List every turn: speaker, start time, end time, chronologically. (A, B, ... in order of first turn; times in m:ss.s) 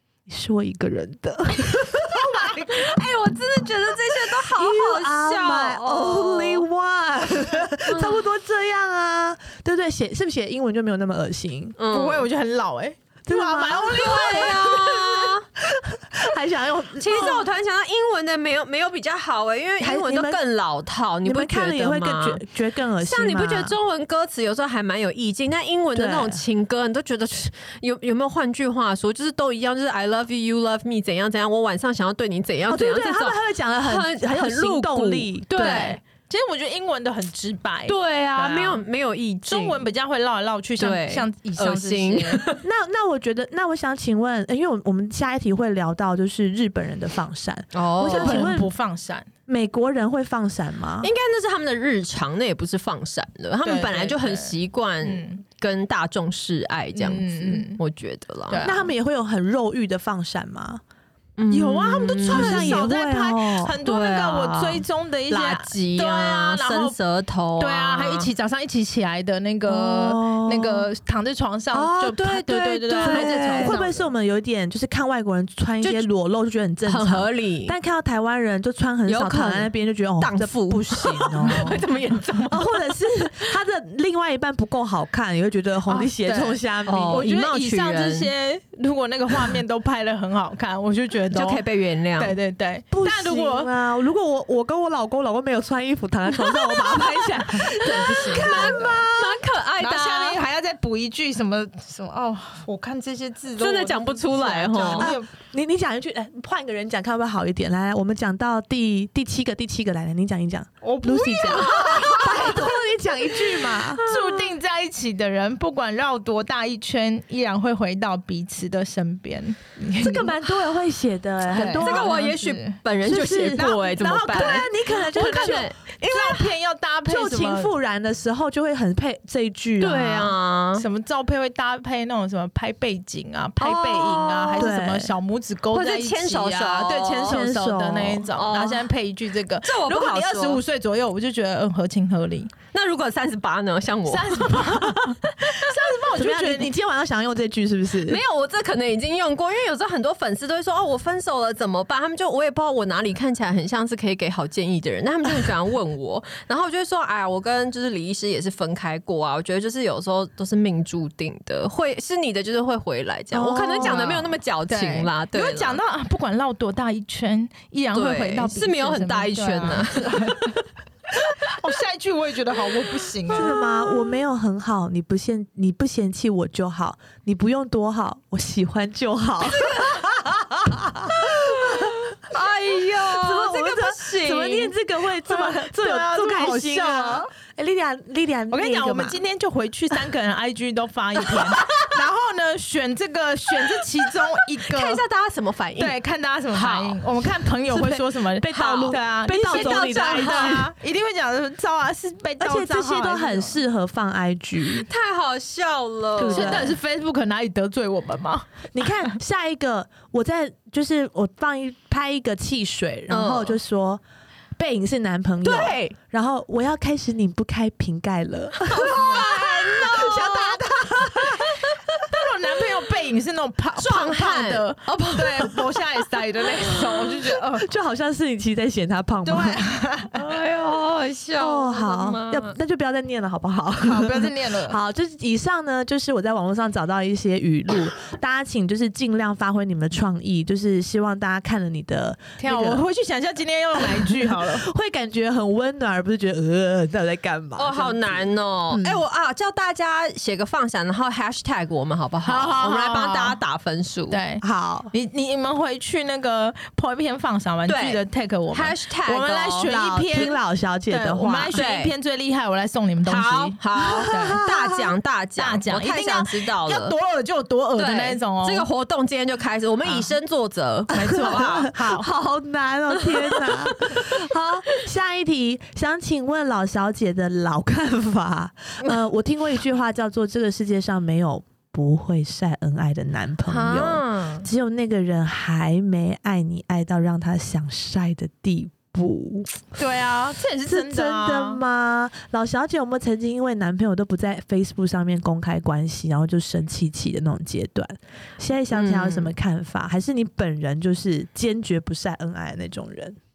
0:00.3-0:02.6 A
0:02.2-0:02.9 B
0:02.4-0:06.6 C
0:04.4-0:11.8 A
0:07.9-0:08.2 C
0:11.8-0:12.3 C
0:11.8-0:14.8 B
0:13.3-0:17.5 A
0:13.8-0:15.4 C
0:17.0-0:22.4 C
0:19.8-0:20.4 A
0:21.2-0:23.8 A
0:23.0-0:36.0 C
0:25.9-0:26.4 A
0:32.7-0:36.0 A
0:35.5-0:38.8 B
0:37.9-0:39.8 C
0:39.4-0:42.5 B
0:40.8-0:42.6 C
0:42.6-0:48.7 A
0:47.7-0:48.5 C
0:48.0-0:49.3 B
0:49.5-0:51.1 A
0:51.0-0:58.7 C
0:53.6-0:55.4 B
0:56.9-0:57.8 B
0:58.5-0:58.9 B
0:58.6-1:00.8 A
1:01.4-1:02.9 C
1:01.5-1:07.0 B
1:02.2-1:03.8 A
1:03.8-1:08.3 C
1:07.6-1:14.1 B
1:09.7-1:10.9 A
1:12.0-1:13.8 C
1:12.9-1:21.8 A
1:16.8-1:17.8 C
1:19.1-1:23.5 C
1:22.5-1:27.3 A
1:25.9-1:31.6 B
1:26.8-1:28.3 C
1:31.3-1:32.4 C
1:32.2-1:33.7 B
1:32.9-1:39.3 A
1:36.4-1:40.4 C
1:37.7-1:39.1 B
1:39.8-1:45.3 B
1:43.6-1:45.1 C
1:45.0-1:54.0 A
1:50.8-1:52.4 B
1:51.3-1:52.8 C
1:53.6-1:54.4 C
1:54.0-2:00.4 B
2:00.0-2:02.1 A
2:01.5-2:02.8 B
2:01.7-2:06.4 C
2:03.0-2:05.7 A
2:03.6-2:07.7 B
2:07.0-2:10.3 A
2:09.8-2:10.8 C
2:10.8-2:22.5 B
2:13.6-2:14.7 C
2:14.6-2:15.1 A
2:15.7-2:17.4 C
2:17.2-2:18.3 A
2:18.3-2:18.9 C
2:19.6-2:20.6 C
2:22.7-2:24.8 C
2:24.1-2:26.7 B
2:26.1-2:28.2 A
2:28.0-2:45.8 C
2:43.3-2:44.4 A
2:43.4-2:50.5 B
2:47.9-2:50.6 C
2:51.4-2:53.5 B
2:53.3-2:54.2 C
2:53.3-3:02.0 A
2:59.5-3:00.1 C
3:01.2-3:04.7 C
3:03.0-3:09.2 A
3:05.3-3:07.3 B
3:08.5-3:15.0 B
3:14.7-3:16.0 C
3:15.8-3:23.6 B
3:16.5-3:17.0 C
3:17.7-3:20.7 A
3:18.5-3:20.6 C
3:22.4-3:24.9 A
3:24.7-3:26.7 C
3:26.2-3:26.8 A
3:26.3-3:28.5 B
3:28.7-3:34.0 A
3:33.1-3:33.6 C
3:34.6-3:41.6 A
3:35.4-3:35.9 C
3:38.6-3:41.4 C
3:38.9-3:39.4 B
3:42.0-3:47.7 B
3:43.8-3:45.7 C
3:47.5-3:49.6 A
3:49.2-3:50.2 B
3:50.1-3:52.6 C
3:51.4-4:02.8 A
3:53.8-3:54.8 B
4:02.4-4:04.6 B
4:03.8-4:09.0 A
4:07.6-4:14.2 C
4:12.2-4:13.4 B
4:14.1-4:20.4 B
4:14.4-4:14.9 A
4:17.7-4:19.7 C
4:19.7-4:21.5 A
4:20.9-4:24.4 B
4:21.5-4:21.9 C
4:23.0-4:26.9 C
4:23.8-4:24.9 A
4:25.4-4:28.7 B
4:27.8-4:31.7 C
4:30.9-4:32.1 B
4:30.9-4:49.6 A
4:33.0-4:34.1 C
4:43.5-4:44.5 C
4:49.8-4:51.6 B
4:50.6-5:03.2 A
4:58.7-4:59.3 C